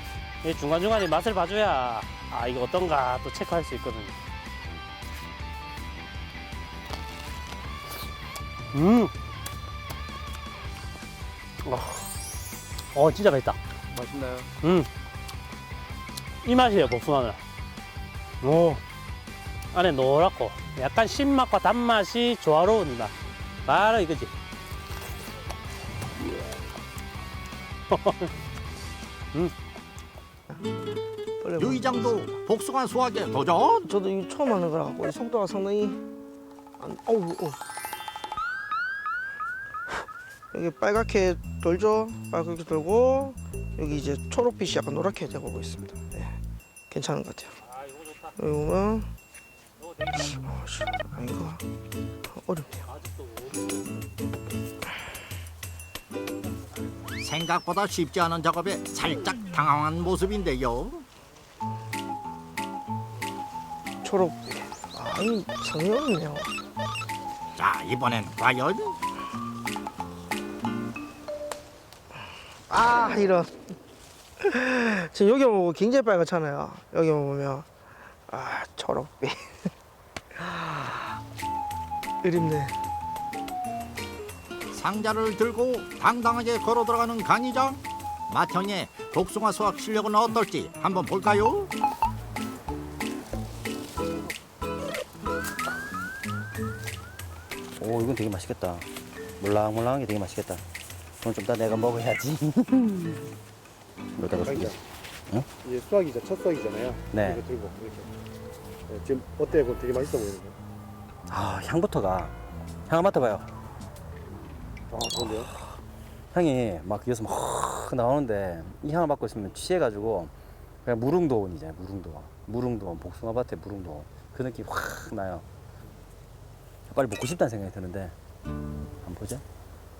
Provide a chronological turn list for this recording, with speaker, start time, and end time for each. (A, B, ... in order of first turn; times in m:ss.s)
0:00.4-0:04.2 A
0:08.7-0:09.1 A
0:11.6-0:12.1 A
0:12.9-0:13.6 A
0:13.9-0:14.5 B
0:14.6-0:14.9 A
0:16.4-0:17.4 A
0:18.4-0:18.8 A
0:19.7-0:23.1 A
0:23.6-0:24.3 A
0:27.9-0:28.3 A
0:31.4-0:32.4 C
0:31.6-0:33.9 D
0:33.9-0:36.0 C
0:36.8-0:37.6 C
0:40.5-0:46.4 C
0:46.9-0:47.6 C
0:47.8-0:48.3 A
0:48.4-0:49.1 C
0:50.1-0:50.3 A
0:50.1-0:51.6 C
0:52.3-0:52.8 C
0:53.0-0:53.8 A
0:57.2-1:01.0 D
1:04.0-1:06.5 C
1:07.6-1:09.0 D
1:12.7-1:13.5 C
1:14.4-1:17.7 C
1:18.3-1:19.7 C
1:20.3-1:21.2 C
1:22.2-1:22.7 C
1:24.7-1:31.7 D
1:37.8-1:38.9 B
1:39.4-1:40.6 B
1:41.2-1:43.3 B
1:44.2-1:44.8 B
1:44.4-1:44.8 E
1:45.6-1:48.1 E
1:47.1-1:47.4 B
1:48.9-1:50.6 E
1:51.3-1:52.3 B
1:52.9-1:53.5 B
1:54.9-1:55.5 E
1:56.3-2:00.3 B
2:00.8-2:05.4 B
2:06.9-2:08.1 B
2:09.0-2:09.4 B